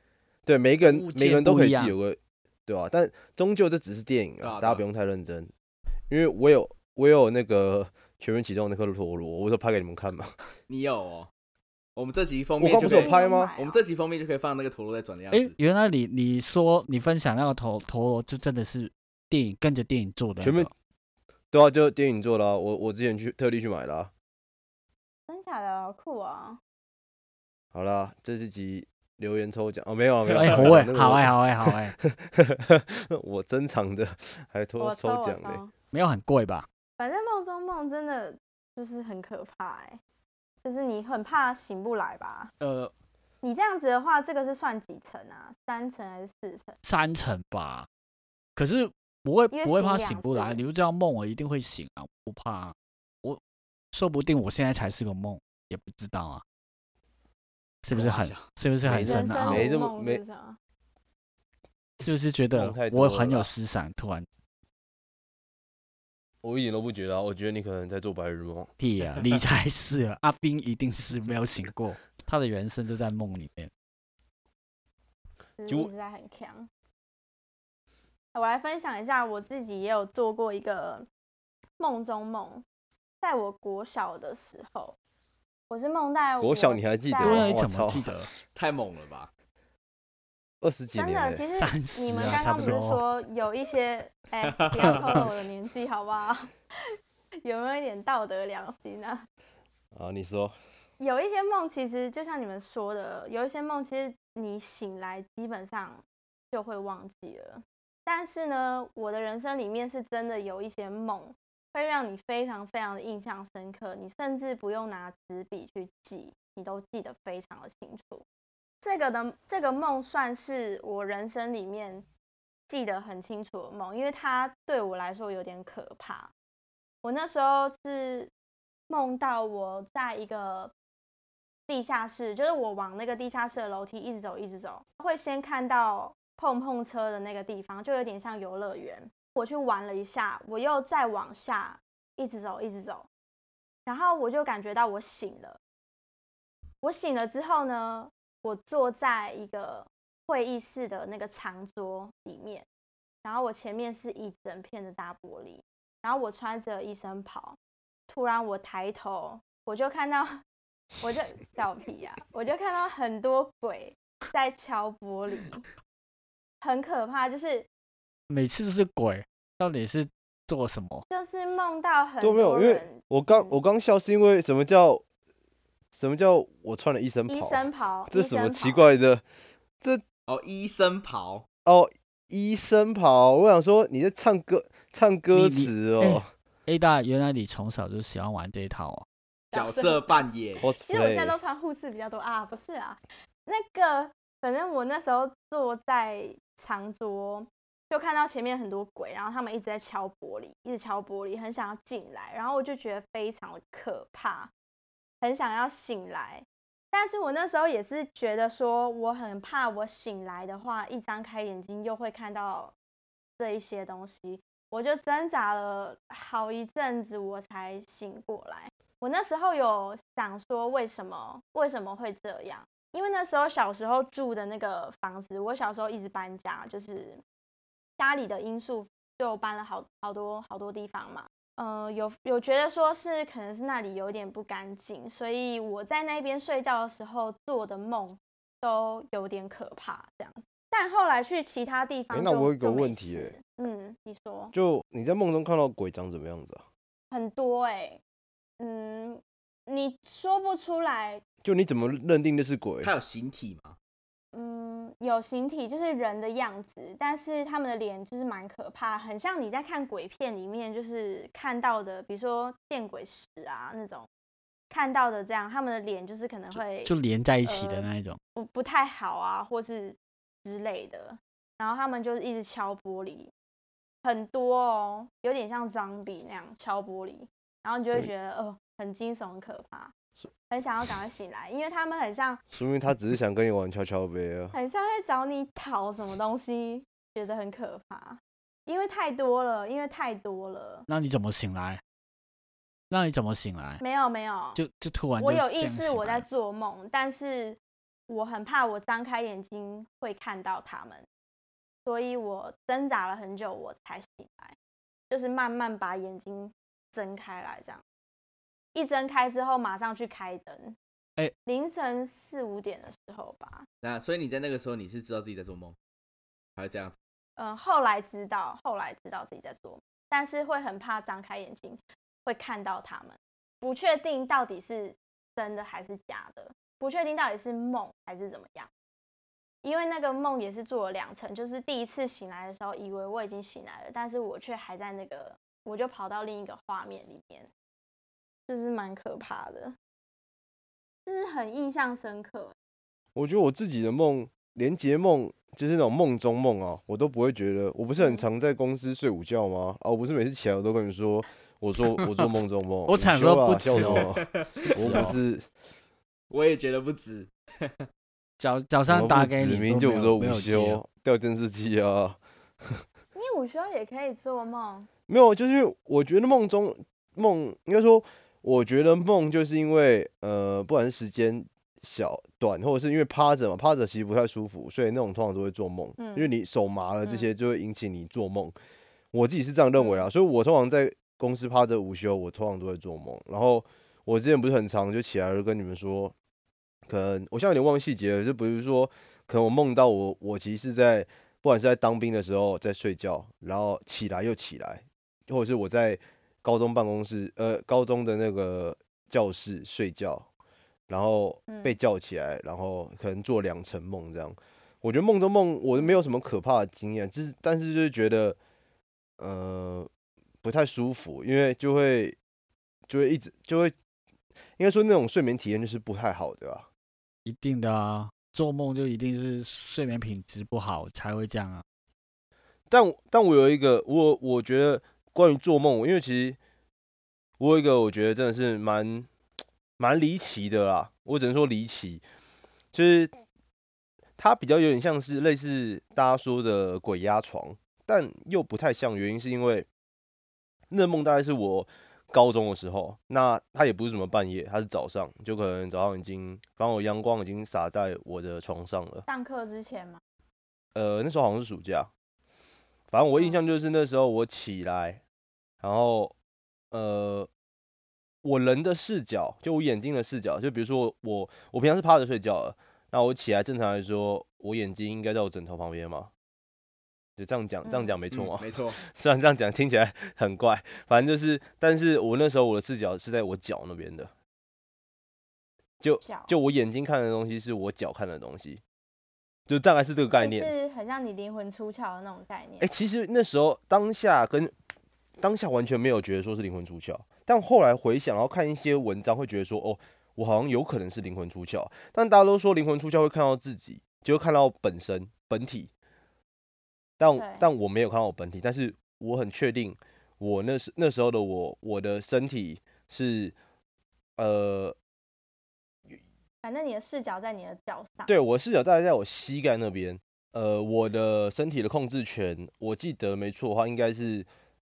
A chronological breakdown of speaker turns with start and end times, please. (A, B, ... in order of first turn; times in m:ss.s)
0:00.5-0:05.5 A
0:00.8-0:02.0 B
0:04.4-0:04.8 C
0:06.1-0:10.3 A
0:10.7-0:11.3 C
0:12.0-0:15.5 C
0:12.6-0:13.5 A
0:12.8-0:13.8 D
0:15.3-0:20.7 B
0:20.4-0:20.7 A
0:21.5-0:24.1 A
0:25.3-0:26.6 D
0:27.7-0:35.6 A
0:30.3-0:32.0 B
0:34.8-0:35.7 D
0:35.9-0:36.7 B
0:37.0-0:40.0 D
0:40.6-0:42.5 D
0:42.6-0:42.9 B
0:43.4-0:46.8 D
0:46.8-0:47.9 B
0:48.6-0:53.4 B
0:49.5-0:50.6 D
0:53.9-0:56.4 B
0:57.8-0:59.7 B
0:57.9-0:58.5 C
0:58.8-1:00.2 A
0:59.0-1:00.6 D
1:02.0-1:04.3 B
1:02.5-1:03.5 A
1:06.4-1:08.7 A
1:08.8-1:13.7 B
1:15.6-1:16.7 D
1:18.3-1:21.1 D
1:21.8-1:22.6 D
1:23.2-1:25.0 D
1:25.7-1:27.6 D
1:26.4-1:28.1 A
1:27.2-1:28.3 B
1:28.5-1:29.3 C
1:30.6-1:31.4 A
1:30.9-1:39.2 D
1:31.6-1:33.0 B
1:34.4-1:35.2 C
1:34.9-1:35.1 B
1:39.9-1:40.6 A
1:41.0-1:58.2 D
1:58.8-2:02.1 D
2:02.7-2:06.3 D
2:07.0-2:08.3 D
2:08.9-2:10.7 D
2:11.7-2:23.1 D
2:23.9-2:25.6 D
2:26.8-2:32.7 D
2:33.2-2:37.6 D
2:38.1-2:40.4 D
2:41.0-2:45.6 D
2:46.6-2:47.7 D
2:48.3-2:51.0 B
2:51.1-2:53.6 D
2:52.2-2:55.0 A
2:55.9-2:59.2 A
2:57.3-2:58.8 D
3:00.3-3:01.5 C
3:01.7-3:06.3 A
3:05.3-3:09.1 B
3:09.5-3:10.2 D
3:09.5-3:10.7 C
3:10.6-3:11.4 A
3:10.8-3:24.5 D
3:25.2-3:32.8 D
3:33.4-3:47.2 D
3:48.0-4:04.5 D
4:02.1-4:03.4 A
4:04.5-4:06.6 A
4:07.1-4:08.0 D
4:08.6-4:11.2 D
4:11.4-4:12.9 A
4:12.8-4:13.8 C
4:14.3-4:24.1 D
4:24.7-4:26.9 D
4:26.5-4:28.2 B
4:27.4-4:33.3 D
4:34.0-4:39.9 D
4:40.5-4:42.4 D
4:42.5-4:44.5 A
4:44.5-4:50.9 D
4:50.9-4:51.8 B
4:52.9-4:53.8 B
4:53.8-4:54.6 D
4:54.6-4:56.3 B
4:55.2-5:01.0 D
5:01.8-5:04.6 D
5:05.1-5:07.8 D
5:08.7-5:10.8 D
5:11.5-5:13.7 D
5:13.8-5:15.8 C
5:16.6-5:17.0 C
5:17.4-5:28.7 D
5:29.6-5:37.5 D
5:38.5-5:39.8 D
5:41.1-5:42.6 D
5:43.2-5:55.5 A
5:48.0-5:48.2 D
5:52.9-5:55.2 B
5:53.7-5:55.1 C
5:56.3-5:57.9 C
5:58.4-6:00.8 B
5:58.9-6:02.8 A
6:03.2-6:04.9 D
6:05.1-6:18.6 A
6:16.0-6:16.3 D
6:17.0-6:17.3 D
6:19.1-6:26.1 A
6:19.8-6:20.1 D
6:26.9-6:40.3 A
6:40.9-6:48.4 A
6:41.5-6:41.8 D
6:49.2-6:49.9 A
6:50.4-6:52.2 A
6:52.9-6:53.7 A
6:54.6-6:56.7 A
6:57.2-7:01.6 B
7:02.7-7:06.4 A
7:07.4-7:09.1 A
7:09.8-7:12.0 A
7:12.7-7:13.1 A
7:14.2-7:19.7 A
7:20.7-7:29.0 A
7:29.1-7:30.0 D
7:30.8-7:31.9 A
7:32.9-7:35.0 A
7:35.6-7:36.1 A
7:36.7-7:37.3 A
7:38.2-7:46.1 A
7:47.2-7:54.1 A
7:47.6-7:48.0 D
7:48.1-7:48.8 C
7:55.8-7:58.6 A
7:56.0-7:56.3 D
7:59.5-8:00.5 A
8:00.1-8:02.7 D
8:02.6-8:04.5 A
8:05.2-8:15.7 A
8:17.0-8:23.4 A
8:17.2-8:17.5 D
8:24.2-8:24.8 A
8:26.4-8:28.1 D
8:28.1-8:34.3 A